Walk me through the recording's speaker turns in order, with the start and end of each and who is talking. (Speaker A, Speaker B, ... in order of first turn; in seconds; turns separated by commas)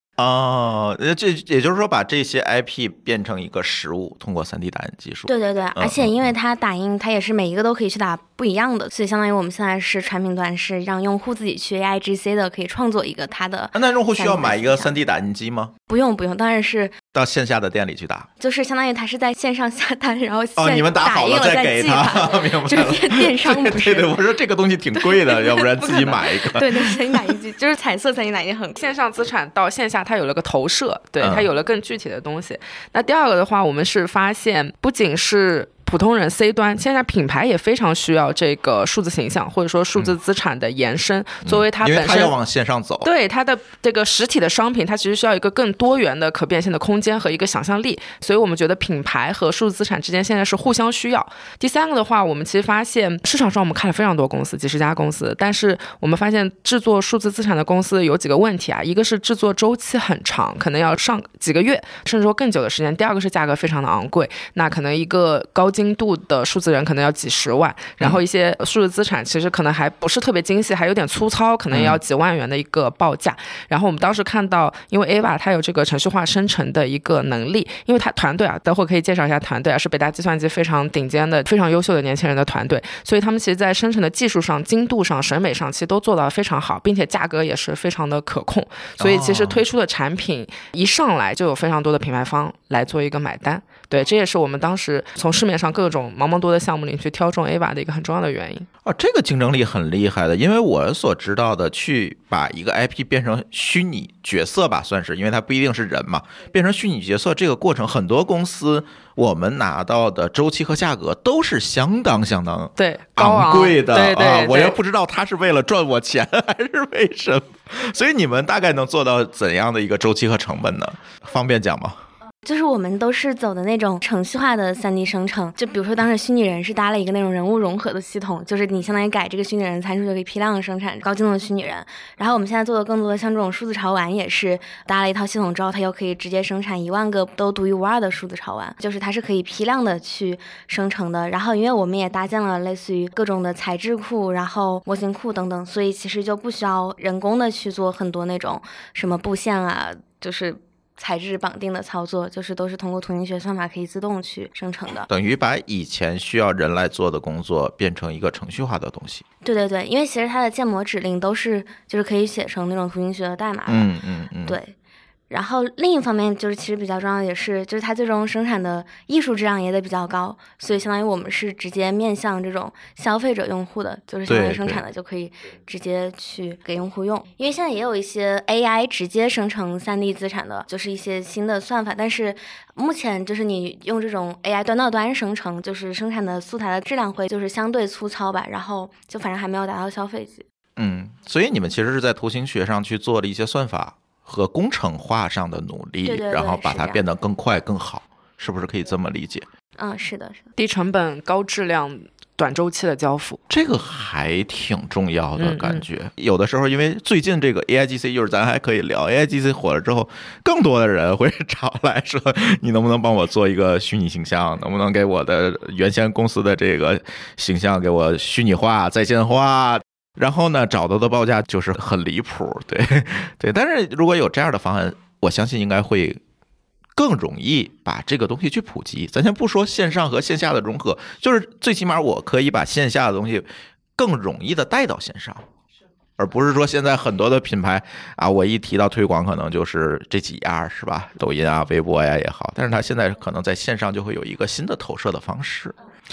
Speaker A: 0.2-6.3, Speaker B: 5.3-14.9, Speaker A: 13.7-15.7, Speaker B: 15.9-17.0, Speaker A: 17.1-18.3, Speaker B: 18.4-24.2, Speaker A: 20.6-27.1, Speaker B: 25.0-28.8, Speaker C: 28.8-42.3, Speaker A: 31.2-31.5, Speaker A: 41.5-43.1, Speaker C: 43.0-98.7, Speaker A: 71.7-72.0, Speaker A: 89.0-89.6, Speaker A: 98.8-122.0, Speaker C: 112.8-114.8, Speaker B: 122.4-155.1, Speaker A: 155.1-159.2, Speaker B: 159.4-163.9, Speaker A: 163.7-164.6, Speaker B: 164.5-164.8, Speaker B: 165.3-190.4, Speaker A: 174.3-174.8, Speaker A: 190.8-199.5, Speaker B: 196.1-197.0, Speaker B: 199.8-200.5, Speaker C: 200.6-203.4, Speaker A: 203.5-226.2, Speaker C: 205.4-205.8, Speaker A: 227.0-235.4, Speaker A: 236.2-245.8